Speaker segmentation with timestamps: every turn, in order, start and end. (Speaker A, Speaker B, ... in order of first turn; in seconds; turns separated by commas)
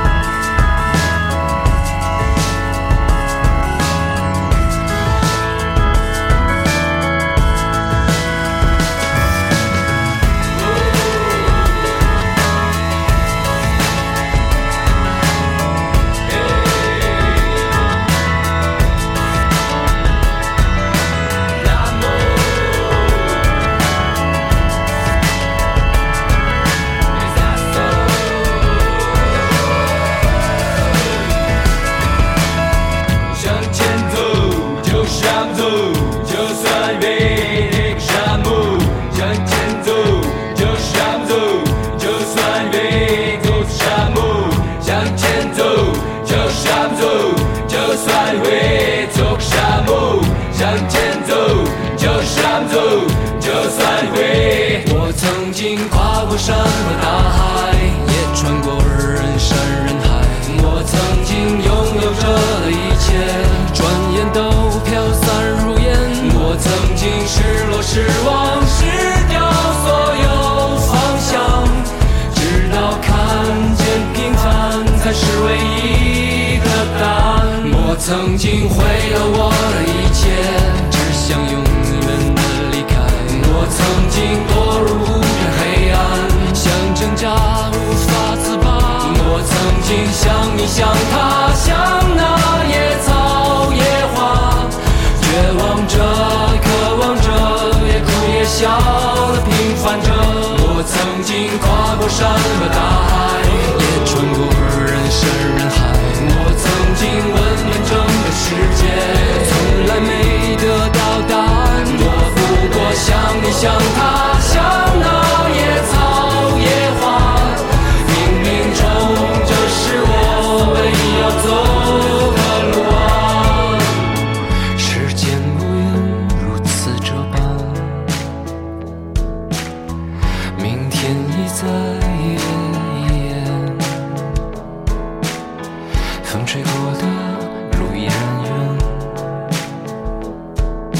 Speaker A: 21.7-23.0, Speaker A: 27.1-29.0, Speaker A: 33.2-128.3, Speaker A: 130.5-134.3, Speaker A: 136.2-139.6